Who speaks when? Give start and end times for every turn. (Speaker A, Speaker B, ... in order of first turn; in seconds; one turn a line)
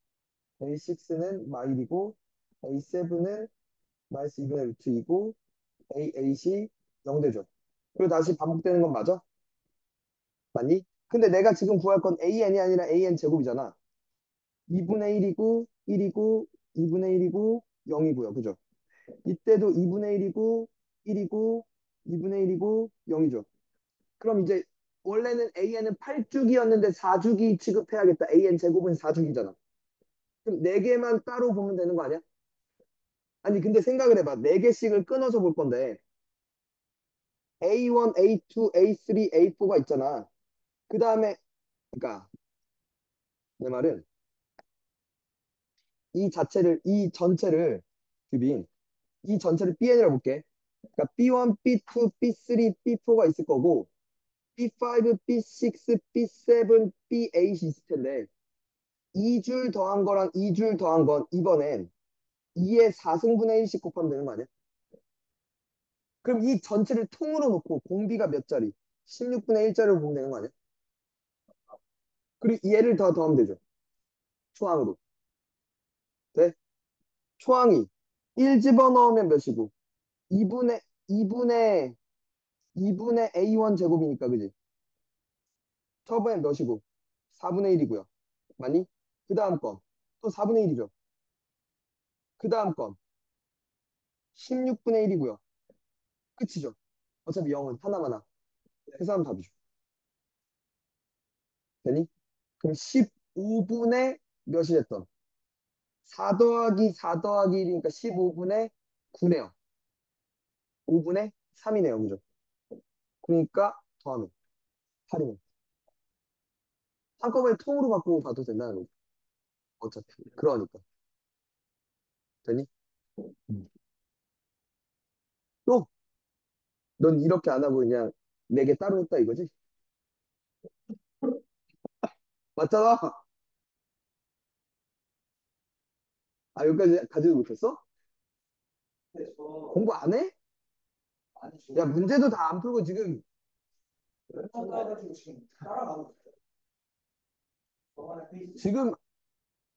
Speaker A: 0.6-3.5
Speaker A: 4.1-5.3
Speaker A: 5.9-9.2
Speaker A: 10.5-13.8
Speaker A: 14.7-18.6
Speaker A: 19.2-23.4
Speaker A: 24.2-29.5
Speaker A: 30.4-32.2
Speaker A: 33.4-36.0
Speaker A: 37.6-40.3
Speaker A: 40.9-41.4
Speaker A: 41.9-42.3
Speaker A: 43.6-44.0
Speaker A: 46.1-48.7
Speaker A: 49.2-50.4
Speaker A: 51.0-53.9
Speaker A: 54.6-58.3
Speaker A: 59.1-61.9
Speaker A: 62.5-64.5
Speaker A: 66.2-70.5
Speaker A: 72.4-73.6
Speaker A: 74.5-75.0
Speaker A: 77.4-79.7
Speaker A: 80.3-82.0
Speaker A: 82.8-84.5
Speaker A: 86.0-86.8
Speaker A: 87.3-88.1
Speaker A: 88.6-90.9
Speaker A: 92.4-93.0
Speaker A: 94.3-95.4
Speaker A: 96.4-98.2
Speaker A: 99.0-99.5
Speaker A: 101.8-102.1
Speaker A: 102.6-105.1
Speaker A: 106.1-109.5
Speaker A: 110.9-112.2
Speaker A: 113.2-114.3
Speaker A: 115.1-115.4
Speaker A: 117.2-118.9
Speaker A: 119.8-120.8
Speaker A: 127.0-129.5
Speaker A: 132.6-133.2
Speaker A: 136.5-137.8
Speaker B: 139.1-139.7
Speaker A: 139.7-140.3
Speaker B: 141.4-142.1
Speaker A: 141.7-143.2
Speaker B: 144.3-146.2
Speaker B: 147.9-148.6
Speaker A: 148.6-149.0